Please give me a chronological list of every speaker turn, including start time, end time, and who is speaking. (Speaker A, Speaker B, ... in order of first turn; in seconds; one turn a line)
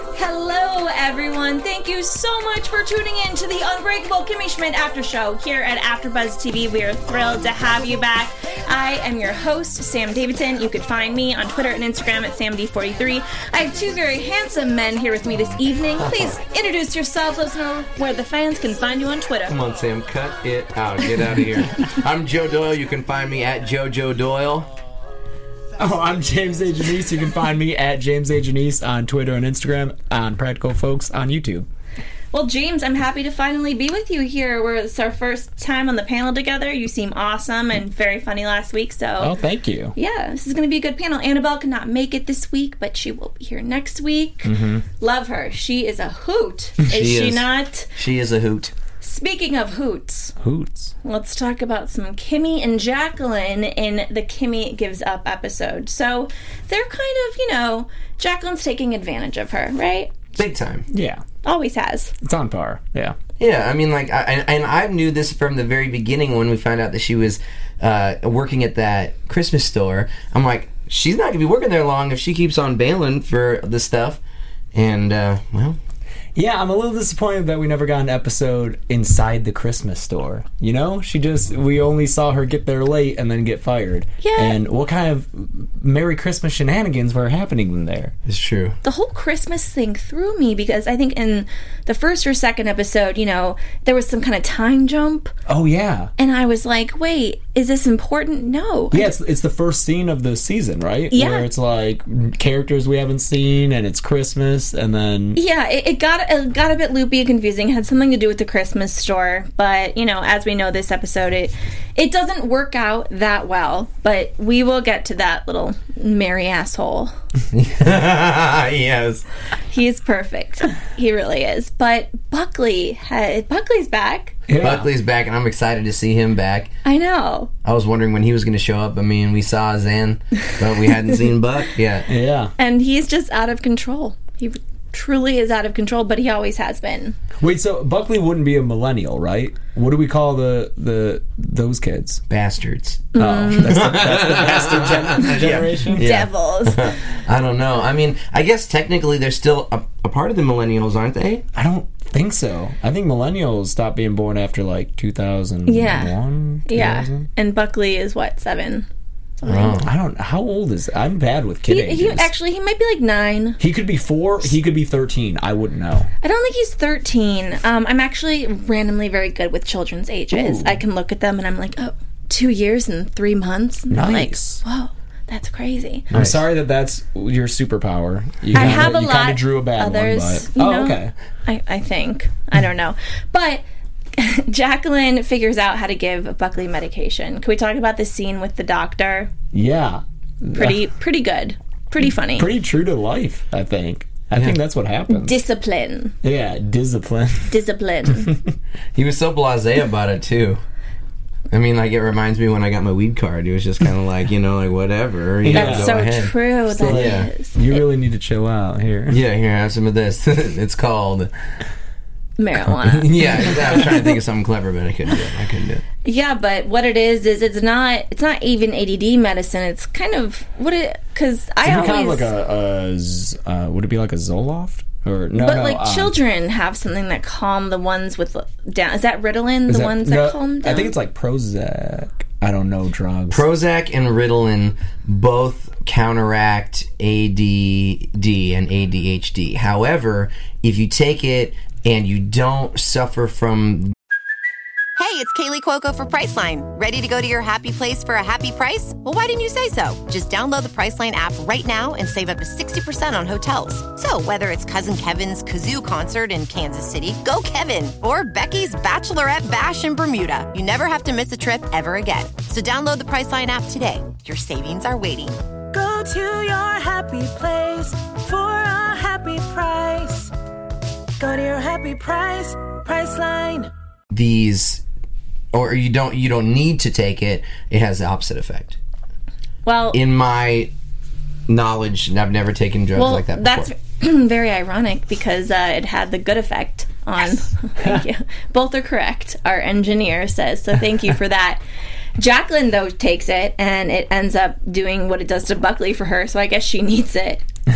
Speaker A: 0.1-19.6
Speaker B: 19.5-24.7
Speaker C: 25.8-31.7
Speaker A: 32.3-39.4
Speaker C: 39.2-39.9
Speaker A: 39.9-47.9
Speaker C: 44.4-44.8
Speaker B: 46.9-47.5
Speaker B: 48.0-48.7
Speaker A: 49.0-50.3
Speaker C: 50.4-50.9
Speaker A: 51.0-60.1
Speaker B: 60.4-60.9
Speaker C: 60.9-61.2
Speaker A: 61.4-62.1
Speaker C: 62.2-63.1
Speaker B: 63.4-74.2
Speaker B: 74.7-75.8
Speaker C: 76.3-88.1
Speaker A: 84.2-84.6
Speaker B: 88.2-88.8
Speaker A: 88.8-95.3
Speaker C: 95.5-96.1
Speaker A: 96.2-99.1
Speaker C: 98.9-105.4
Speaker A: 101.1-101.5
Speaker A: 105.3-117.1
Speaker B: 117.5-119.2
Speaker A: 119.7-124.4
Speaker C: 124.5-124.9
Speaker B: 124.6-126.7
Speaker A: 126.8-127.5
Speaker B: 127.6-132.1
Speaker C: 132.1-132.5
Speaker A: 132.6-137.2
Speaker C: 137.4-142.2
Speaker B: 142.3-151.4
Speaker A: 143.1-143.8
Speaker C: 143.2-146.1
Speaker A: 145.9-146.9
Speaker C: 151.5-157.3
Speaker A: 155.7-156.1
Speaker A: 156.7-158.8
Speaker A: 159.4-159.8
Speaker B: 159.4-159.9
Speaker C: 159.8-162.3
Speaker A: 161.7-163.6
Speaker C: 163.6-166.1
Speaker A: 166.2-176.1
Speaker C: 170.3-170.8
Speaker C: 173.9-174.6
Speaker B: 176.1-176.4
Speaker C: 176.1-181.1
Speaker A: 178.5-183.6
Speaker B: 178.6-178.8
Speaker A: 184.2-189.3
Speaker C: 189.5-190.8
Speaker A: 190.6-192.5
Speaker C: 192.3-195.3
Speaker A: 195.1-196.1
Speaker C: 196.2-197.5
Speaker A: 197.5-198.3
Speaker B: 198.9-200.6
Speaker B: 201.5-206.3
Speaker C: 205.4-205.9
Speaker A: 205.5-207.8
Speaker C: 206.7-209.2
Speaker B: 206.8-207.3
Speaker B: 209.1-211.3
Speaker A: 212.4-214.1
Speaker B: 212.8-215.8
Speaker A: 216.0-222.3
Speaker C: 221.6-226.1
Speaker A: 225.3-230.9
Speaker C: 229.7-233.4
Speaker B: 233.3-243.9
Speaker D: 245.0-265.4
Speaker E: 265.7-270.3
Speaker E: 271.2-273.7
Speaker B: 274.1-274.8
Speaker B: 275.5-278.8
Speaker A: 279.6-280.0
Speaker B: 279.9-280.7
Speaker B: 281.5-283.7
Speaker A: 282.9-291.6
Speaker A: 292.2-297.4